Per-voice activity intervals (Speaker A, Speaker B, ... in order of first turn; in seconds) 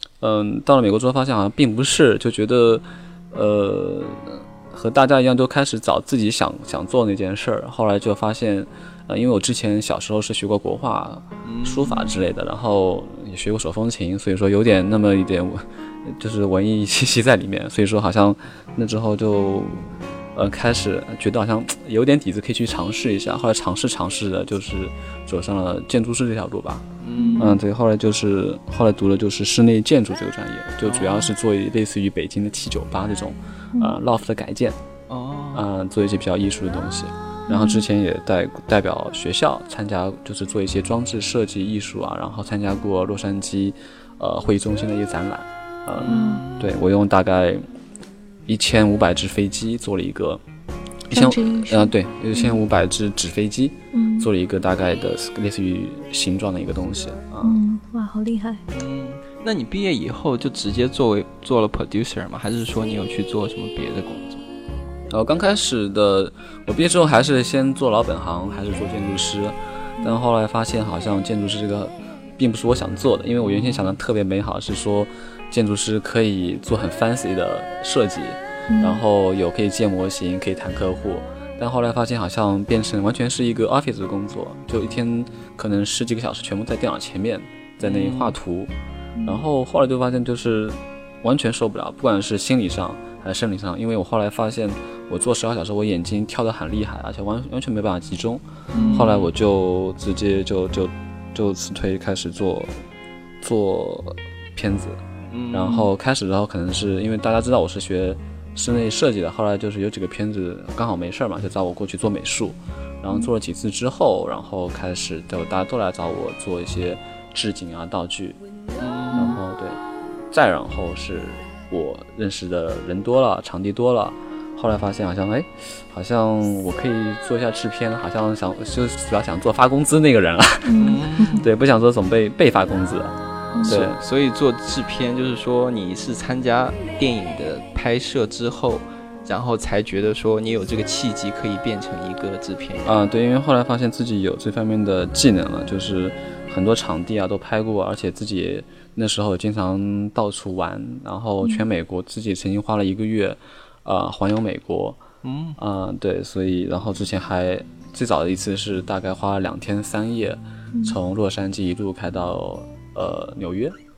Speaker A: 0.2-26.9, 27.4-34.8, 35.5-47.6, 48.5-50.4, 51.1-57.6, 65.1-88.7, 89.2-102.7, 103.4-105.0, 105.5-118.4, 119.1-119.8, 120.3-133.2, 133.7-134.0, 142.8-155.0, 155.6-163.8
Speaker B: 11.4-12.2, 27.0-27.5, 30.9-31.3, 35.1-35.7, 46.0-46.8, 58.7-64.4, 73.4-74.0, 87.8-88.4, 98.8-99.3, 105.3-105.9, 118.8-119.4, 130.8-131.5, 133.6-143.0, 155.2-155.6
Speaker C: 27.2-27.5, 37.5-37.8, 46.1-46.5, 51.1-52.6, 53.9-54.3, 57.4-58.6, 78.7-79.0, 98.7-99.1, 130.7-131.3